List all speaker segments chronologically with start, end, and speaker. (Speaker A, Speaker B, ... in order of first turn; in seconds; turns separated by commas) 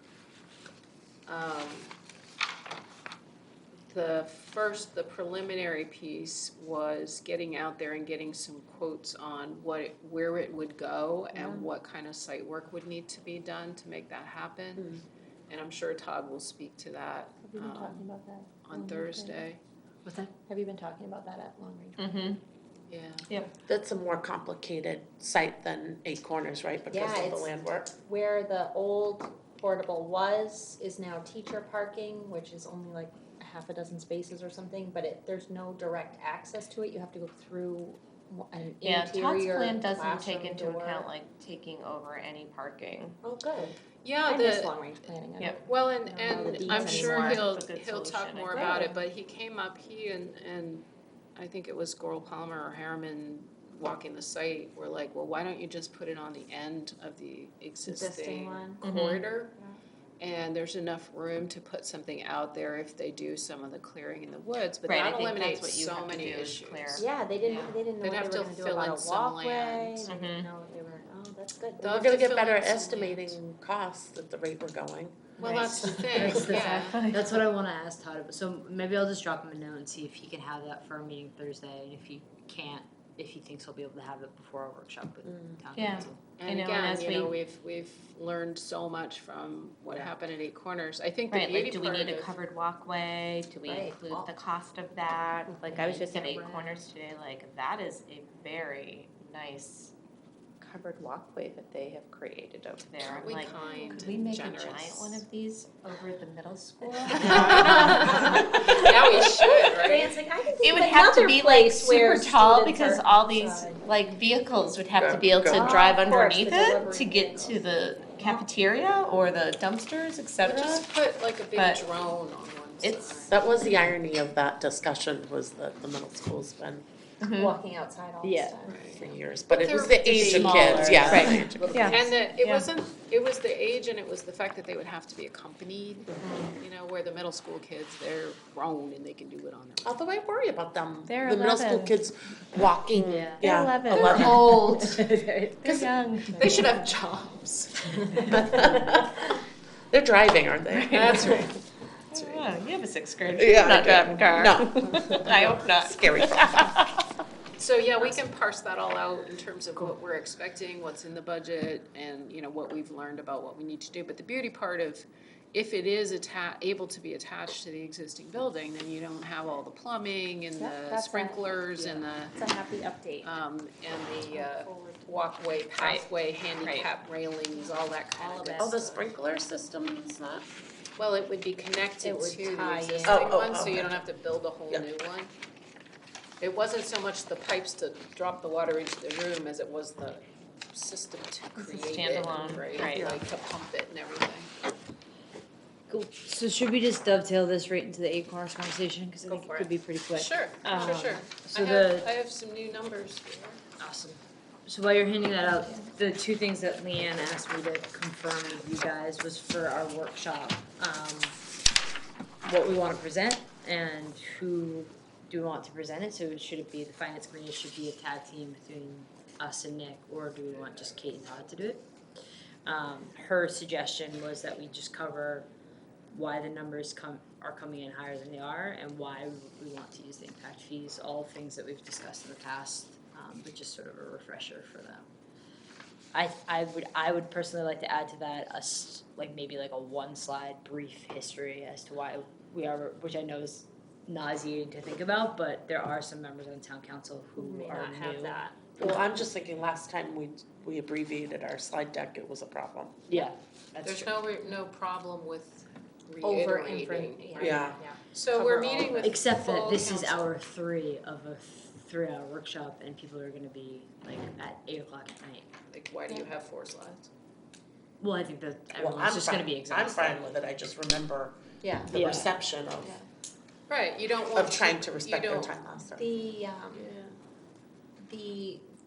Speaker A: 1.3-2.0, Speaker A: 3.9-15.0, Speaker B: 11.3-11.7, Speaker C: 14.8-15.0, Speaker A: 15.5-18.1, Speaker B: 17.4-19.4, Speaker A: 18.6-19.6, Speaker B: 20.4-22.1, Speaker D: 22.0-22.4, Speaker A: 22.9-23.3, Speaker D: 23.3-23.6, Speaker C: 23.6-27.9, Speaker B: 26.9-41.1, Speaker D: 38.8-43.2, Speaker B: 43.2-43.8, Speaker A: 44.0-44.7, Speaker B: 44.3-47.5, Speaker D: 45.4-45.6, Speaker A: 45.6-59.5, Speaker D: 46.3-48.9, Speaker B: 48.5-49.0, Speaker B: 57.9-58.8, Speaker D: 58.8-59.2, Speaker A: 60.2-67.0, Speaker D: 64.8-67.8, Speaker B: 67.0-72.0, Speaker A: 68.0-70.1, Speaker D: 70.0-70.5, Speaker A: 71.8-73.4, Speaker C: 71.8-75.9, Speaker B: 75.4-76.6, Speaker A: 75.4-77.0, Speaker E: 76.1-86.2, Speaker D: 76.4-77.4, Speaker C: 85.2-85.6, Speaker D: 85.8-87.4, Speaker A: 86.4-92.3, Speaker D: 91.3-99.9, Speaker B: 93.7-94.3, Speaker B: 95.5-96.8, Speaker D: 100.6-108.8, Speaker A: 103.0-105.2, Speaker B: 103.6-104.1, Speaker B: 107.1-108.8, Speaker A: 107.1-110.2, Speaker B: 109.7-113.8, Speaker D: 110.6-120.9, Speaker C: 115.0-115.7, Speaker B: 115.5-118.5, Speaker A: 120.4-123.4, Speaker D: 121.5-122.0, Speaker D: 122.8-123.4, Speaker C: 123.3-126.9, Speaker D: 127.2-127.5, Speaker B: 127.3-129.0, Speaker E: 128.2-128.6, Speaker A: 128.7-131.2, Speaker C: 129.0-132.1, Speaker E: 130.0-131.6, Speaker D: 131.1-132.7, Speaker A: 131.8-140.0, Speaker B: 136.2-136.6, Speaker C: 139.8-144.6, Speaker D: 141.1-141.9, Speaker E: 143.0-143.4, Speaker D: 143.2-145.0, Speaker E: 143.9-145.7, Speaker D: 145.6-146.5, Speaker A: 146.3-147.9, Speaker B: 146.4-146.7, Speaker B: 148.1-148.6, Speaker C: 148.3-149.1, Speaker C: 149.9-151.3, Speaker D: 150.7-151.5, Speaker A: 150.9-152.4, Speaker D: 152.1-156.8, Speaker C: 153.3-156.8, Speaker A: 157.6-172.4, Speaker B: 170.6-173.3, Speaker A: 173.2-179.1, Speaker B: 174.3-175.3, Speaker D: 176.6-176.9, Speaker B: 177.5-179.1, Speaker C: 178.6-180.5, Speaker A: 181.0-185.3, Speaker B: 182.0-183.3, Speaker C: 183.0-184.0, Speaker A: 186.4-194.5, Speaker D: 191.6-193.2, Speaker B: 192.9-193.2, Speaker E: 195.9-202.1, Speaker A: 199.3-203.6, Speaker B: 200.7-201.0, Speaker E: 203.8-211.4, Speaker E: 212.4-221.9, Speaker A: 220.7-221.0, Speaker E: 222.7-225.5, Speaker E: 226.1-235.1, Speaker E: 236.1-248.4, Speaker B: 247.4-248.6, Speaker C: 248.8-253.0, Speaker E: 253.1-254.1, Speaker A: 253.8-260.3, Speaker B: 256.2-259.2, Speaker C: 257.4-257.8, Speaker E: 259.0-265.5, Speaker A: 265.7-267.1, Speaker E: 268.0-270.4, Speaker C: 268.7-273.0, Speaker B: 271.6-271.9, Speaker E: 271.9-272.3, Speaker A: 273.7-275.5, Speaker C: 274.4-276.1, Speaker B: 276.0-276.9, Speaker A: 276.8-277.1, Speaker B: 278.0-278.6